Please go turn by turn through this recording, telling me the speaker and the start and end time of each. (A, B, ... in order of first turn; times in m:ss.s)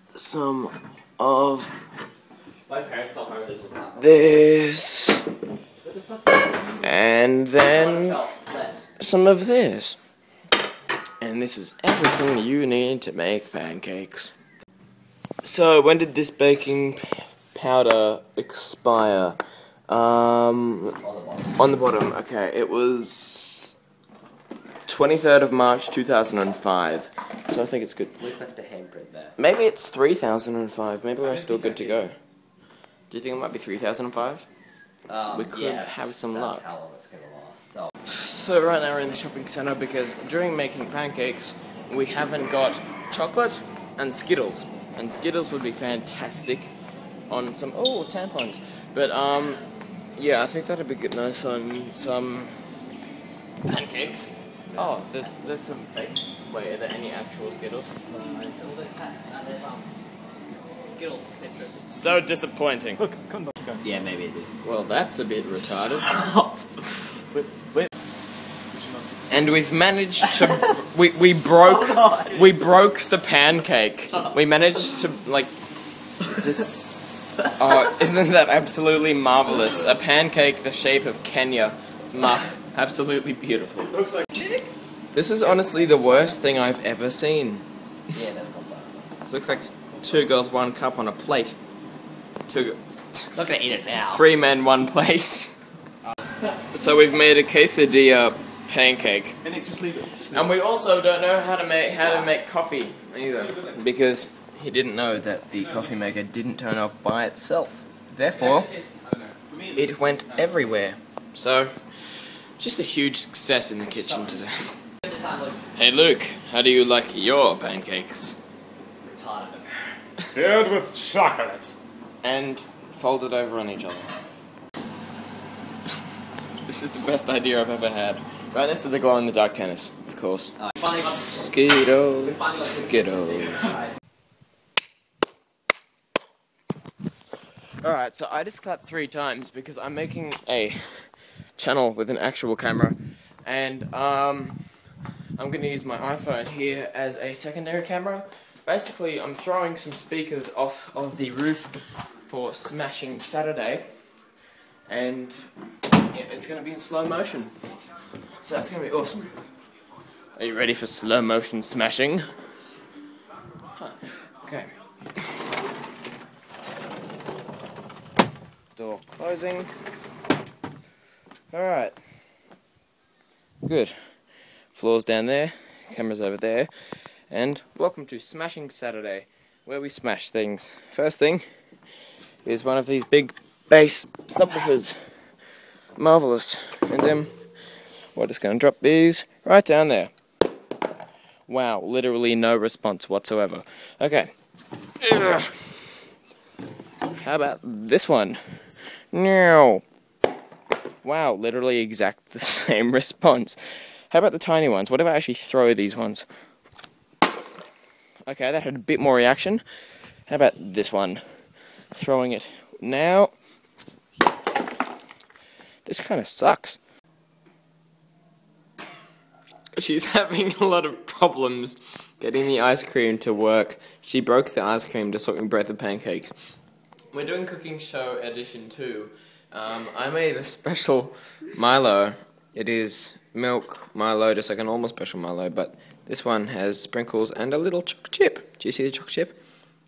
0:00.1-0:01.8 A
0:02.7-0:04.5 B
0:04.0-0:05.3 A
0:05.8-0:06.9 B
0:06.8-0:08.2 A
0:07.6-0:08.8 B
0:09.0-0:10.0 A
0:11.2-0:14.3 A
0:15.4-0:21.0 A
0:21.0-0:21.7 B
0:21.5-0:23.7 A
0:24.9-0:28.2 A
0:28.2-0:29.3 B
0:29.4-0:32.2 A
0:31.4-0:31.9 B
0:33.1-0:34.5 A
0:35.1-0:37.9 B
0:35.3-0:36.6 A
0:38.1-0:46.7 A
0:47.3-0:49.6 A
0:50.2-0:52.6 A
0:53.6-0:57.9 A
0:58.1-0:59.8 B
0:58.2-0:58.5 C
1:00.8-1:01.7 B
1:01.9-1:03.0 A
1:03.0-1:03.8 C
1:03.8-1:04.5 B
1:04.6-1:06.2 A
1:07.3-1:07.8 C
1:08.7-1:09.6 C
1:09.3-1:15.5 A
1:16.2-1:16.8 A
1:17.6-1:24.1 A
1:25.1-1:27.6 A
1:28.1-1:29.1 B
1:29.3-1:31.6 A
1:32.5-1:33.3 A
1:33.3-1:34.2 B
1:34.1-1:35.5 A
1:36.7-1:39.4 A
1:39.4-1:40.5 C
1:40.3-1:48.7 A
1:42.0-1:42.3 B
1:43.4-1:43.7 C
1:48.4-1:50.7 C
1:49.8-1:54.7 A
1:53.8-1:54.4 B
1:55.0-1:55.6 B
1:55.7-1:58.4 A
1:59.0-1:59.7 B
2:00.3-2:01.7 C
2:02.2-2:04.1 A
2:06.6-2:10.6 A
2:10.7-2:11.0 B
2:11.1-2:13.8 A
2:12.3-2:13.8 B
2:17.8-2:34.2 A
2:34.9-2:35.5 A
2:36.1-2:37.8 A
2:38.4-2:39.3 A
2:40.4-2:42.2 A
2:43.7-2:44.7 A
2:48.8-2:49.7 A
2:51.5-2:52.0 A
2:53.6-3:01.4 A
3:02.4-3:05.4 A
3:06.0-3:07.3 A
3:08.1-3:10.1 A
3:11.5-3:14.3 A
3:15.0-3:16.0 A
3:17.2-3:19.8 A
3:21.0-3:26.2 A
3:28.2-3:33.3 A
3:35.8-3:36.8 A
3:39.8-3:46.3 A
3:47.1-3:59.4 A